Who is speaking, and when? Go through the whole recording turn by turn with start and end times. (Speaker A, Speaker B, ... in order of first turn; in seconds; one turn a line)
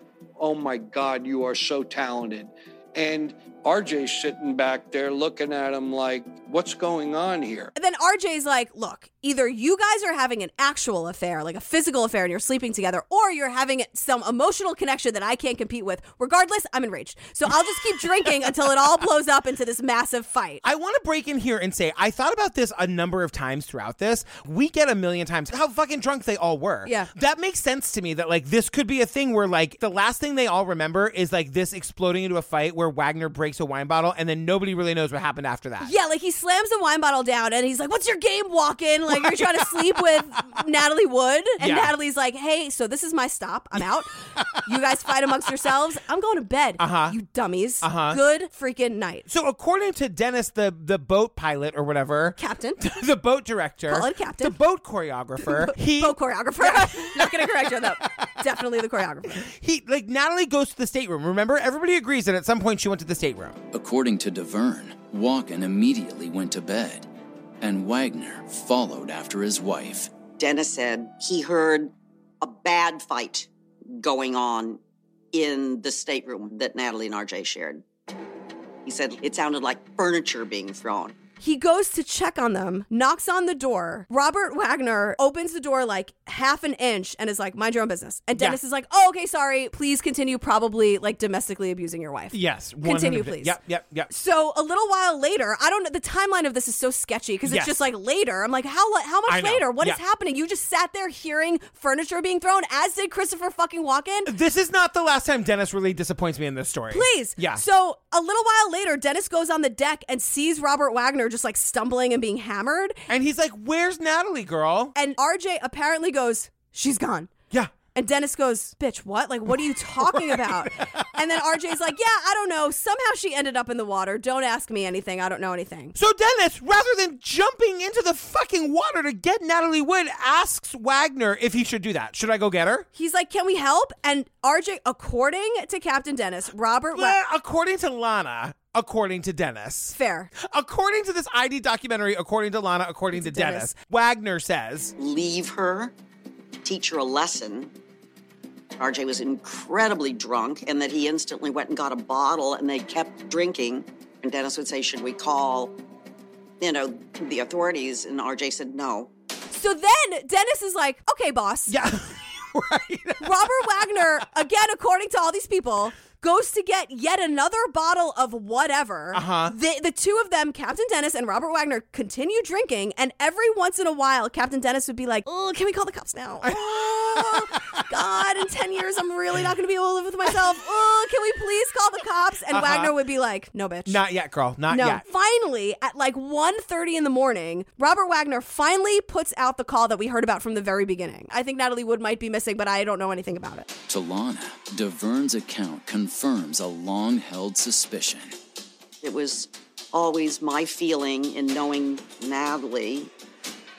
Speaker A: 0.4-7.7
Speaker B: 7.8-20.6
Speaker C: 20.6-35.9
Speaker B: 26.9-27.1
Speaker B: 35.8-44.1
Speaker C: 41.6-41.9
Speaker B: 44.6-49.3
Speaker C: 46.8-47.2
Speaker C: 47.8-48.2
Speaker C: 49.3-57.9
Speaker B: 52.4-52.8
Speaker B: 53.9-54.6
Speaker B: 55.4-59.4
Speaker C: 59.4-63.6
Speaker D: 63.7-67.1
Speaker D: 67.6-70.1
Speaker E: 70.4-74.8
Speaker E: 75.3-77.8
Speaker E: 78.8-81.2
Speaker B: 81.4-93.6
Speaker C: 92.3-94.1
Speaker B: 94.1-104.3
Speaker C: 97.5-97.8
Speaker C: 99.3-100.0
Speaker C: 104.3-107.6
Speaker B: 106.9-113.0
Speaker C: 113.1-114.9
Speaker B: 115.0-117.3
Speaker B: 118.0-126.0
Speaker C: 120.0-120.9
Speaker C: 126.0-132.9
Speaker B: 132.9-137.2
Speaker C: 136.9-144.9
Speaker B: 139.9-140.3
Speaker B: 143.1-143.7
Speaker E: 145.0-145.9
Speaker E: 146.6-147.7
Speaker E: 148.8-155.8
Speaker E: 156.6-159.1
Speaker B: 159.5-161.8
Speaker C: 161.7-163.5
Speaker B: 163.2-184.0
Speaker C: 169.1-169.5
Speaker C: 176.4-177.4
Speaker C: 182.5-182.9
Speaker C: 183.9-185.0
Speaker B: 184.7-193.7
Speaker D: 193.9-198.4
Speaker E: 199.0-203.1